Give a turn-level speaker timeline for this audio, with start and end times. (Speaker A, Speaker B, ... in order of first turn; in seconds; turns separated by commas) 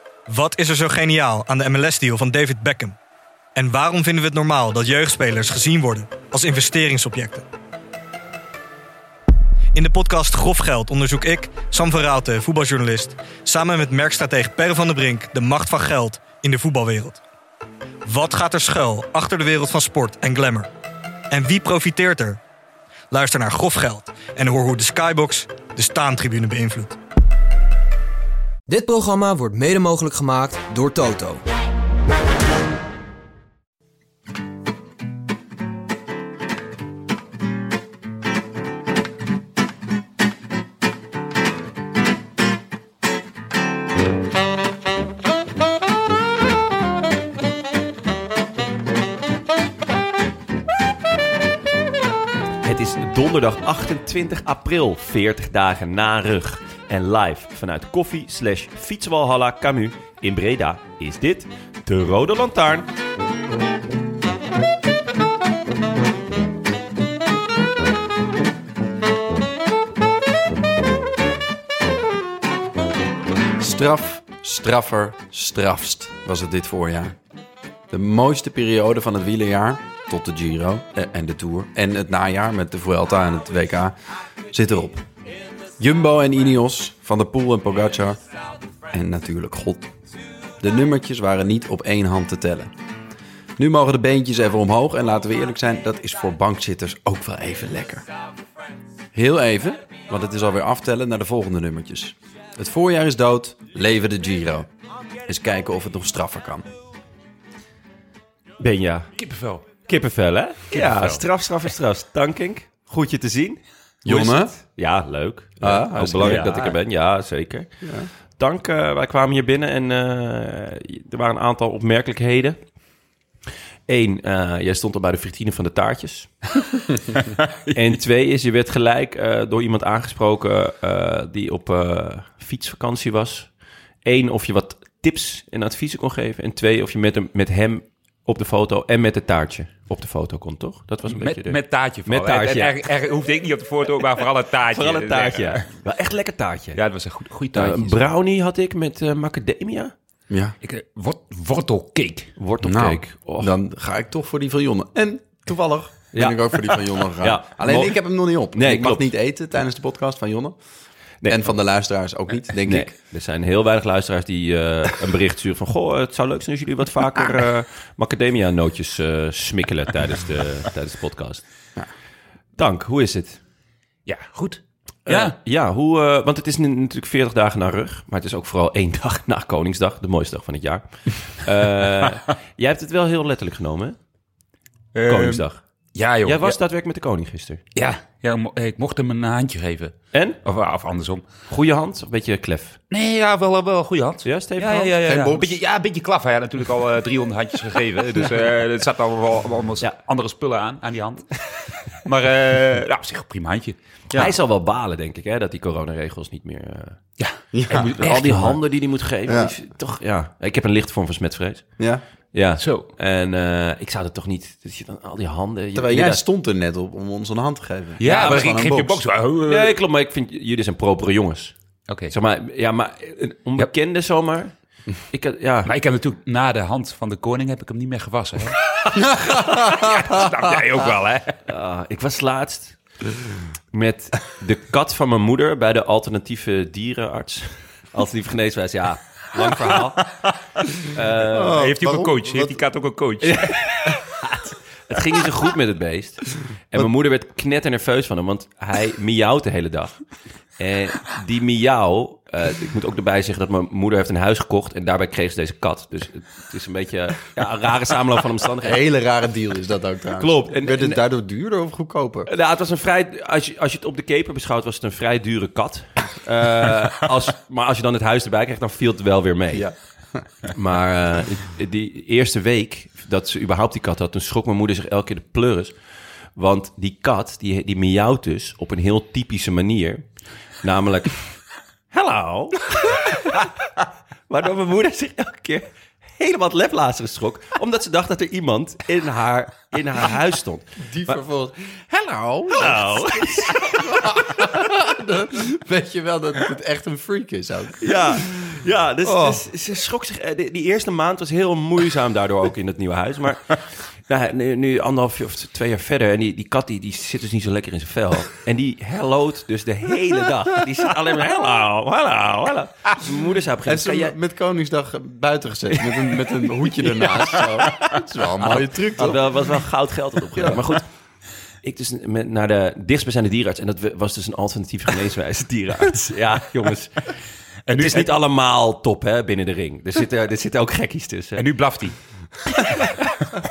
Speaker A: 0.3-3.0, Speaker A: 3.5-7.5, Speaker A: 9.7-17.2, Speaker A: 18.0-20.7, Speaker A: 21.3-22.4, Speaker A: 23.1-27.0, Speaker B: 28.7-31.4, Speaker C: 52.6-62.9, Speaker D: 73.6-77.2, Speaker D: 77.9-84.0, Speaker D: 84.5-85.0, Speaker D: 85.8-88.2, Speaker D: 88.9-89.9, Speaker D: 90.6-92.7, Speaker D: 93.6-98.0, Speaker D: 99.1-104.7, Speaker D: 105.2-106.7, Speaker C: 108.6-109.1, Speaker E: 109.2-109.7, Speaker C: 109.8-122.7, Speaker E: 110.7-111.2, Speaker D: 114.0-114.6, Speaker D: 115.6-116.8, Speaker E: 116.2-116.5, Speaker D: 117.8-118.1, Speaker C: 123.9-126.4, Speaker C: 127.7-142.8, Speaker E: 141.1-145.7, Speaker C: 144.7-146.8, Speaker E: 146.8-148.0, Speaker C: 147.5-149.9, Speaker D: 150.3-150.5, Speaker E: 150.6-152.3, Speaker C: 152.4-153.5, Speaker D: 152.6-162.9, Speaker C: 156.1-159.1, Speaker C: 161.2-161.5, Speaker C: 162.7-171.4, Speaker C: 172.6-173.4, Speaker E: 174.1-175.3, Speaker C: 175.1-184.0, Speaker E: 184.9-186.6, Speaker C: 185.1-185.6, Speaker C: 186.2-187.6, Speaker E: 187.7-191.3, Speaker C: 190.1-190.4, Speaker C: 191.5-192.8, Speaker E: 192.9-203.8, Speaker C: 194.2-194.9, Speaker D: 195.0-195.6, Speaker C: 204.1-207.0, Speaker E: 207.2-208.6, Speaker D: 207.5-208.1, Speaker C: 208.0-211.8, Speaker D: 209.2-209.5, Speaker D: 211.8-212.0, Speaker C: 212.3-216.2, Speaker E: 212.6-212.9, Speaker D: 215.7-219.0, Speaker E: 218.0-219.7, Speaker C: 218.0-218.3, Speaker C: 219.4-221.5, Speaker E: 221.9-222.1, Speaker C: 222.1-225.7, Speaker E: 225.6-231.4, Speaker D: 228.9-229.7, Speaker C: 231.5-232.9, Speaker C: 233.7-240.2, Speaker C: 240.9-241.6, Speaker D: 241.3-242.6, Speaker E: 241.5-243.9, Speaker C: 243.2-258.8, Speaker D: 258.6-262.3, Speaker C: 260.2-261.0, Speaker C: 262.3-269.7, Speaker D: 269.5-270.3, Speaker C: 270.5-283.5, Speaker C: 284.3-291.2, Speaker D: 290.8-298.3, Speaker C: 292.6-293.7, Speaker C: 297.8-314.1, Speaker D: 299.0-299.4, Speaker D: 313.6-319.3, Speaker C: 318.4-320.9, Speaker D: 320.3-320.6, Speaker C: 321.6-327.1, Speaker E: 327.7-328.1, Speaker C: 327.7-331.5, Speaker E: 331.4-332.5